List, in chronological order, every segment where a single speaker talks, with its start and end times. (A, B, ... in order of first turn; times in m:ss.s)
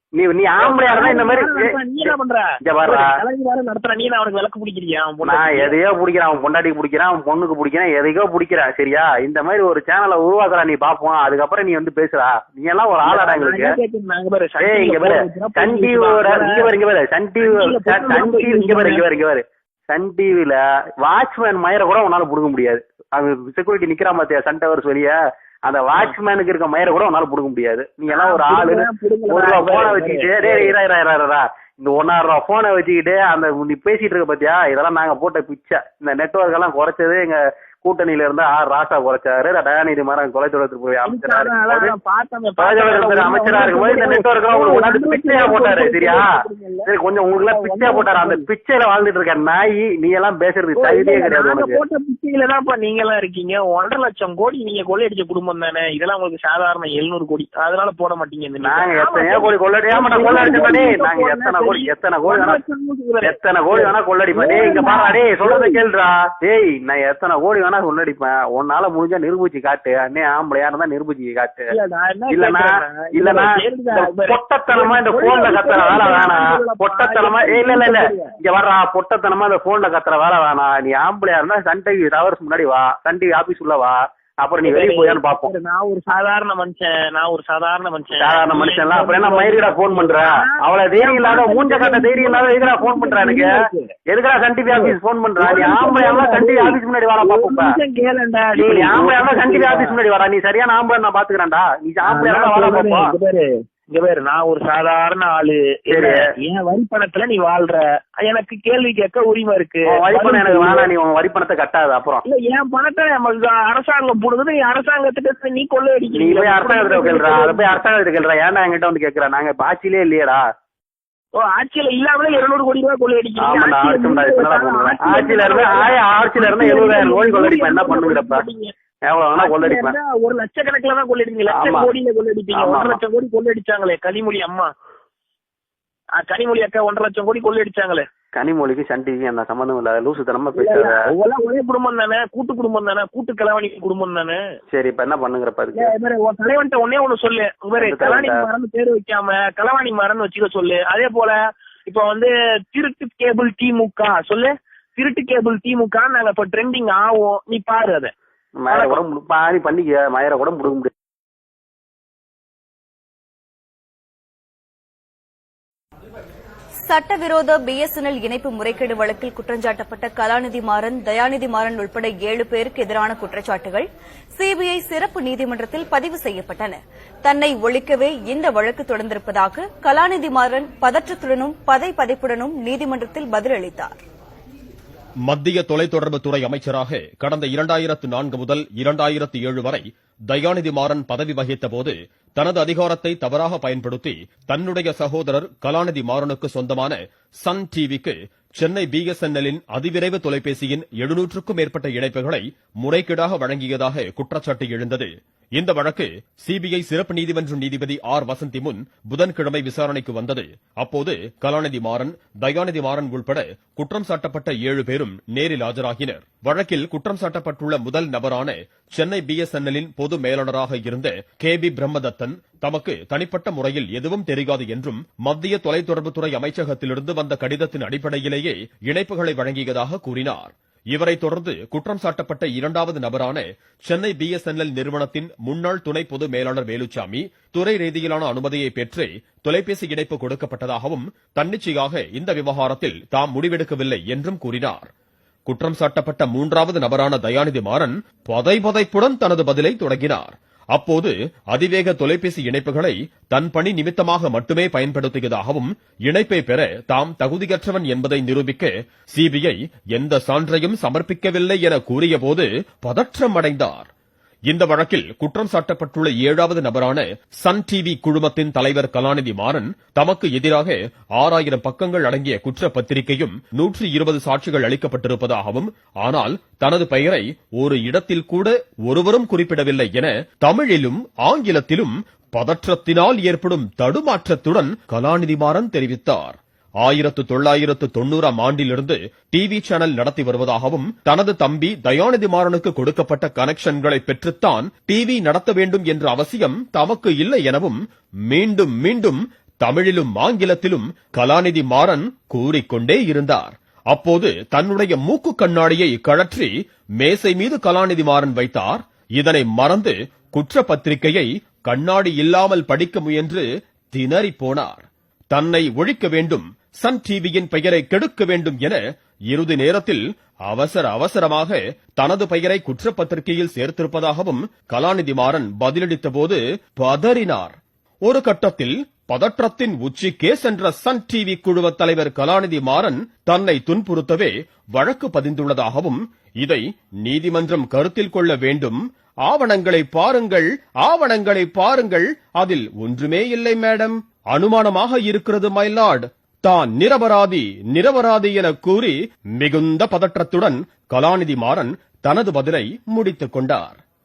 0:00.2-0:02.1 A
0:00.6-0:05.8 B
0:02.6-0:03.1 A
0:05.2-0:13.7 A
0:13.0-0:16.7 B
0:14.6-0:42.0 A
0:17.4-0:19.0 B
0:28.1-0:30.7 B
0:41.0-0:48.4 B
0:42.6-0:46.3 A
0:46.9-0:51.8 A
0:50.8-1:05.8 B
0:58.6-1:02.6 A
1:03.2-1:11.7 A
1:11.7-1:18.3 B
1:12.3-1:25.5 A
1:24.6-1:33.9 B
1:28.2-1:33.6 A
1:34.1-1:37.7 A
1:34.7-1:40.0 B
1:38.6-1:43.1 A
1:42.0-1:50.9 B
1:45.9-1:46.3 A
1:49.9-1:52.2 A
1:52.2-1:57.8 B
1:56.2-2:00.4 A
2:01.4-2:08.7 B
2:03.4-2:08.4 A
2:09.0-2:09.9 A
2:09.4-2:14.7 B
2:11.5-2:11.9 A
2:12.6-2:13.0 A
2:16.2-2:18.0 B
2:18.3-2:21.0 A
2:20.6-2:24.4 B
2:24.7-2:25.9 A
2:25.8-2:38.1 B
2:27.8-2:28.5 A
2:38.6-2:40.9 A
2:38.7-2:39.0 B
2:46.8-3:03.9 C
3:05.3-4:04.9 D
4:05.5-4:23.9 D
4:24.5-5:53.8 D